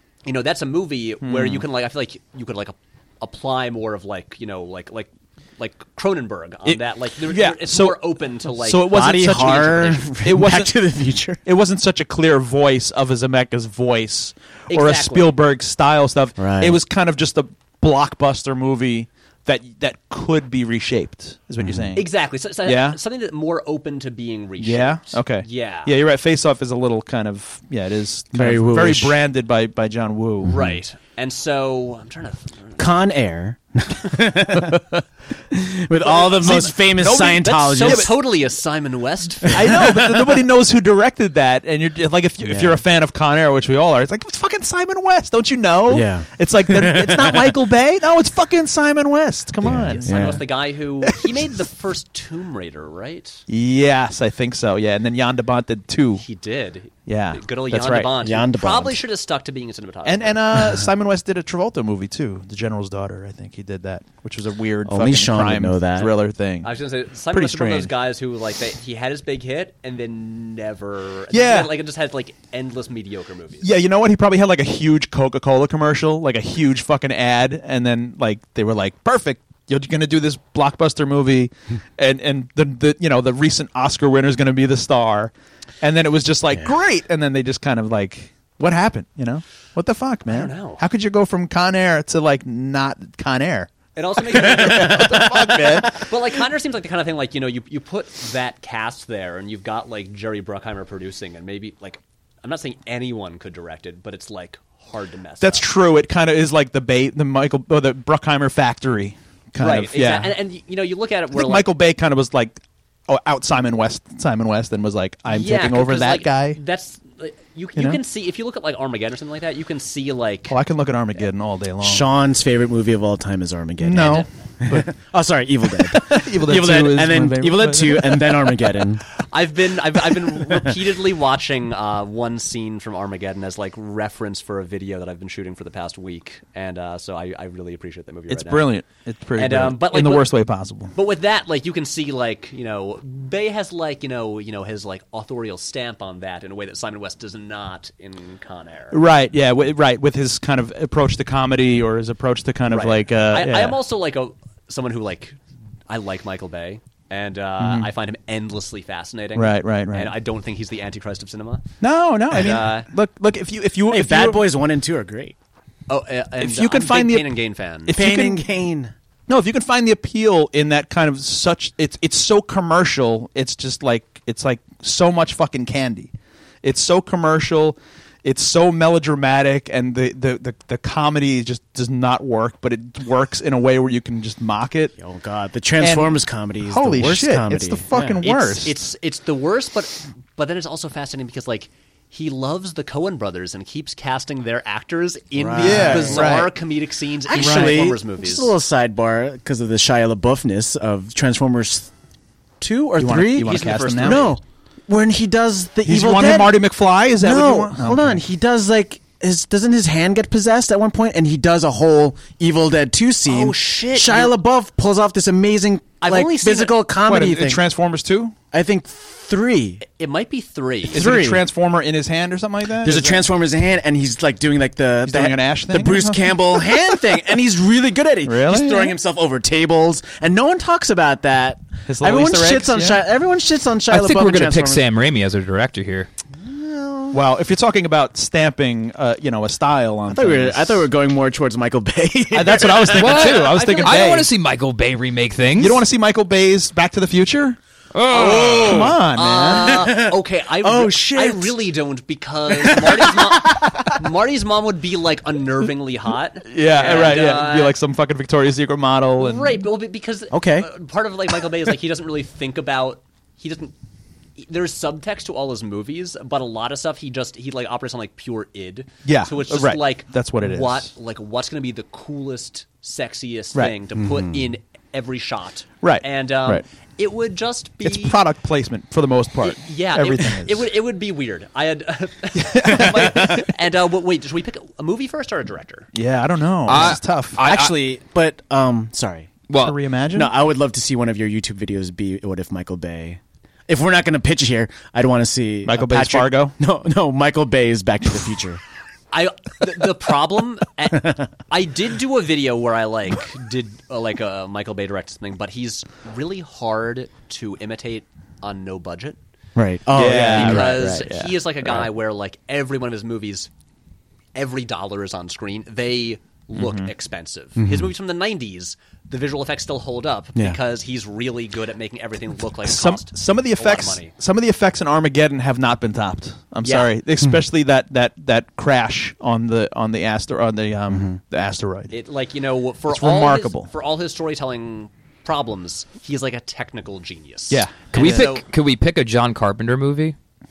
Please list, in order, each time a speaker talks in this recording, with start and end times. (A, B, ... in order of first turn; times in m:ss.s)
0:00.2-0:10.0 A
0:01.2-0:01.6 B
0:06.6-0:10.7 B
0:08.8-0:11.4 C
0:11.4-0:22.1 B
0:14.7-0:15.3 A
0:16.4-0:16.8 C
0:21.6-0:21.9 C
0:21.9-0:25.9 A
0:22.6-0:23.0 B
0:24.6-0:30.6 B
0:28.3-0:29.2 C
0:30.4-0:30.8 C
0:30.5-0:32.8 A
0:32.8-0:38.2 C
0:36.0-0:40.1 A
0:36.2-0:38.1 B
0:39.4-0:40.0 C
0:39.5-0:50.4 B
0:42.4-0:42.8 C
0:45.9-0:47.5 C
0:49.6-0:50.4 C
0:49.9-0:53.4 A
0:51.0-0:51.5 B
0:53.5-0:56.2 B
0:56.2-1:00.4 A
0:57.0-0:58.1 B
0:58.2-0:59.0 C
1:00.0-1:06.7 B
1:04.8-1:06.1 C
1:06.6-1:13.7 A
1:07.3-1:07.9 B
1:11.3-1:11.7 B
1:13.6-1:36.0 B
1:30.3-1:30.8 A
1:33.9-1:45.7 A
1:34.4-1:35.9 C
1:45.4-1:50.4 B
1:49.6-1:51.7 A
1:51.3-1:56.6 B
1:55.3-2:00.6 A
2:00.5-2:02.1 B
2:01.8-2:09.0 C
2:03.8-2:04.9 B
2:05.7-2:08.8 B
2:09.2-2:18.7 A
2:10.3-2:10.6 C
2:18.3-2:20.9 B
2:19.4-2:20.3 A
2:20.9-2:29.0 A
2:28.9-2:33.8 B
2:32.7-2:41.6 A
2:37.6-2:37.9 B
2:39.3-2:40.1 B
2:41.8-2:44.4 B
2:42.3-2:42.9 A
2:43.9-2:45.3 C
2:45.9-2:48.0 A
2:46.4-2:47.3 B
2:47.8-2:48.4 B
2:47.9-2:48.9 C
2:49.3-2:56.1 B
2:56.6-3:04.9 B
3:05.0-3:08.2 C
3:05.8-3:08.8 B
3:08.2-3:18.5 A
3:15.4-3:16.4 C
3:15.6-3:16.5 B
3:17.3-3:21.9 C
3:22.6-3:26.6 C
3:23.0-3:24.3 B
3:23.4-3:24.4 A
3:25.8-3:28.2 B
3:27.2-3:37.6 C
3:33.2-3:34.3 A
3:36.0-3:36.8 A
3:37.0-3:38.3 B
3:38.5-3:39.8 C
3:39.8-3:41.0 A
3:40.9-3:41.4 C
3:40.9-3:43.3 B
3:42.8-3:54.8 C
3:45.0-3:47.2 B
3:48.2-3:49.0 B
3:51.9-3:53.0 B
3:53.9-3:56.1 D
3:56.4-3:57.2 C
3:57.1-4:00.9 B
4:00.1-4:03.3 C
4:02.3-4:04.3 B
4:02.9-4:05.8 D
4:03.2-4:04.1 A
4:05.6-4:07.6 B
4:07.9-4:08.9 D
4:08.1-4:17.8 A
4:08.2-4:08.6 C
4:08.4-4:09.9 B
4:09.5-4:11.6 C
4:12.5-4:13.6 C
4:16.4-4:19.6 B
4:19.2-4:23.7 A
4:20.3-4:20.7 C
4:24.4-4:38.2 A
4:29.0-4:30.9 B
4:34.0-4:34.5 C
4:35.8-4:36.6 B
4:37.8-4:40.7 B
4:39.4-4:45.9 A
4:42.3-4:43.5 B
4:45.9-4:47.4 B
4:46.7-4:47.8 D
4:46.8-4:49.3 C
4:49.5-4:49.8 D
4:49.5-4:50.3 B
4:50.1-4:58.6 C
4:55.6-4:56.5 B
4:59.1-5:09.2 A
5:01.0-5:01.2 C
5:09.6-5:10.9 C
5:09.9-5:11.9 B
5:10.2-5:13.5 A
5:14.3-5:24.1 A
5:16.5-5:16.9 B
5:17.6-5:17.9 C
5:22.6-5:31.9 B
5:26.6-5:26.9 A
5:30.9-5:31.2 C
5:31.9-5:38.4 A
5:32.9-5:33.7 B
5:37.5-5:38.0 B
5:37.9-5:40.1 D